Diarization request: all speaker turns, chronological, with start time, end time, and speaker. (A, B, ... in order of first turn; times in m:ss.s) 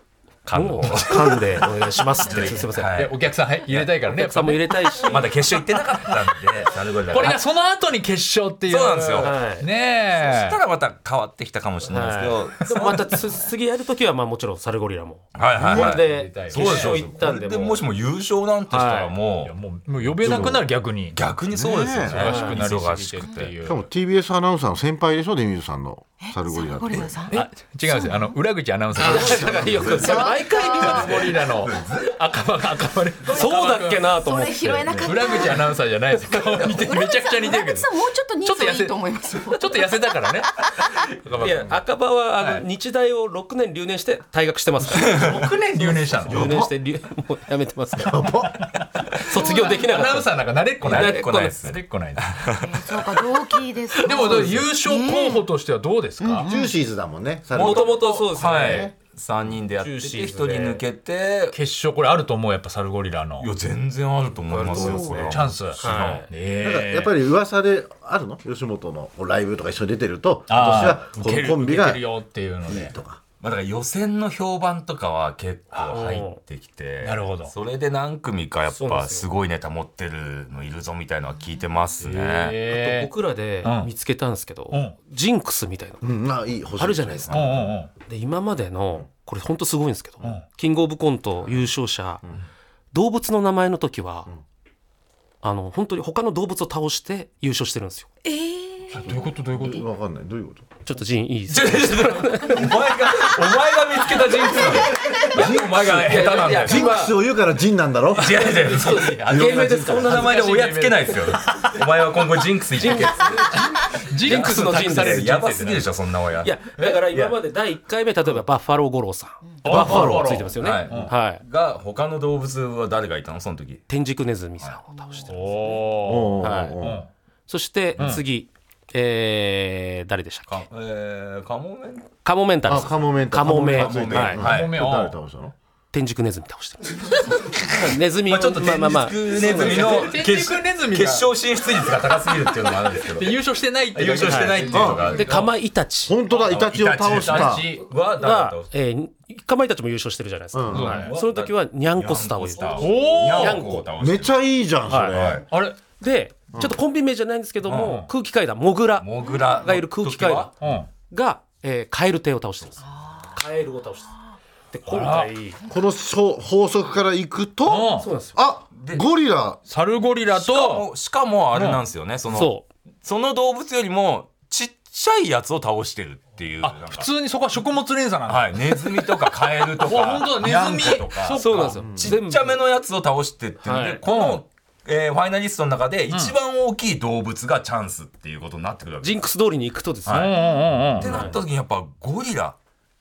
0:00.4-0:01.7 A
0:00.5-0:03.0 B
0:02.2-0:03.2 A
0:02.9-0:05.2 C
0:04.0-0:05.3 B
0:05.0-0:07.4 A
0:07.1-0:10.6 C
0:08.7-0:09.4 A
0:09.2-0:09.7 B
0:10.1-0:13.3 A
0:11.9-0:17.8 B
0:15.3-0:19.5 A
0:15.6-0:17.0 C
0:18.7-0:19.1 B
0:19.4-0:21.2 C
0:20.2-0:20.7 D
0:20.2-0:23.5 A
0:21.5-0:22.3 D
0:22.1-0:23.8 C
0:22.2-0:22.6 B
0:23.6-0:27.3 D
0:26.2-0:28.3 E
0:27.3-0:30.0 C
0:29.0-0:32.2 A
0:29.0-0:31.5 B
0:29.9-0:31.2 E
0:30.6-0:41.8 C
0:33.2-0:35.0 B
0:34.1-0:35.8 E
0:36.4-0:40.2 E
0:41.4-0:45.2 B
0:44.9-0:45.5 A
0:44.9-0:46.6 C
0:46.2-0:48.4 B
0:46.3-0:46.7 D
0:48.0-0:48.7 D
0:49.1-0:51.6 B
0:49.2-0:52.5 C
0:50.8-0:53.1 A
0:52.5-0:55.4 E
0:53.9-0:54.7 B
0:54.0-0:56.5 C
0:56.2-0:56.7 E
0:56.4-0:58.9 D
0:57.5-1:01.6 A
0:57.6-0:58.9 B
0:59.8-1:00.8 B
1:01.5-1:03.5 C
1:03.4-1:06.2 A
1:04.5-1:06.3 B
1:04.6-1:05.4 D
1:05.3-1:07.1 C
1:06.5-1:12.1 D
1:10.5-1:12.9 C
1:12.6-1:13.2 D
1:13.4-1:22.6 A
1:15.9-1:16.4 B
1:17.0-1:17.5 C
1:18.7-1:19.3 B
1:22.0-1:23.1 C
1:22.6-1:26.0 B
1:23.6-1:23.9 C
1:26.0-1:27.7 D
1:26.8-1:32.2 B
1:27.3-1:27.9 C
1:32.9-1:34.3 B
1:35.4-1:38.1 B
1:38.2-1:38.9 E
1:38.9-1:39.8 C
1:39.0-1:40.6 D
1:40.8-1:42.7 B
1:41.5-1:46.9 A
1:44.3-1:47.2 B
1:45.3-1:48.5 D
1:48.2-1:53.6 A
1:48.5-1:50.3 B
1:48.6-1:51.7 C
1:49.3-1:50.2 D
1:52.8-1:55.3 B
1:52.9-1:55.9 C
1:54.2-1:56.6 A
1:56.4-2:01.4 B
1:57.1-1:57.4 A
1:59.6-2:01.1 C
1:59.7-2:00.4 D
1:59.9-2:03.8 A
2:03.9-2:05.8 B
2:05.3-2:07.1 C
2:06.0-2:07.0 D
2:06.4-2:06.8 B
2:07.5-2:10.6 B
2:08.0-2:08.2 C
2:10.5-2:12.1 A
2:12.2-2:14.4 B
2:12.6-2:15.5 D
2:13.5-2:14.8 A
2:14.4-2:15.1 C
2:15.9-2:20.1 B
2:17.2-2:17.7 A
2:18.2-2:23.4 A
2:19.4-2:21.3 C
2:23.1-2:25.5 C
2:23.9-2:25.5 A
2:24.2-2:26.2 B
2:24.7-2:25.1 D
2:26.1-2:27.7 D
2:26.3-2:27.8 C
2:26.4-2:28.7 A
2:28.2-2:33.9 B
2:30.5-2:30.9 D
2:30.7-2:31.1 C
2:30.7-2:34.3 A
2:32.8-2:33.6 C
2:34.0-2:35.4 D
2:34.9-2:35.2 B
2:35.1-2:35.4 A
2:35.5-2:35.8 C
2:36.0-2:40.5 B
2:37.7-2:38.0 A
2:37.7-2:38.1 C
2:39.0-2:40.5 A
2:40.6-2:40.9 C
2:41.1-2:44.2 B
2:44.7-2:45.6 B
2:44.9-2:45.3 C
2:45.7-2:49.6 D
2:47.6-2:48.1 C
2:48.0-2:48.3 B
2:48.7-2:49.0 A
2:49.7-2:50.8 C
2:50.3-2:52.5 A
2:51.5-2:51.8 C
2:52.3-2:52.6 B
2:53.0-2:57.1 A
2:56.6-2:59.1 C
2:58.3-3:09.2 A
2:59.8-3:01.8 C
3:01.3-3:02.6 B
3:01.8-3:02.2 D
3:03.6-3:04.0 B
3:04.0-3:04.4 C
3:09.0-3:10.4 B
3:10.0-3:12.6 A
3:10.1-3:11.3 C
3:11.0-3:11.4 B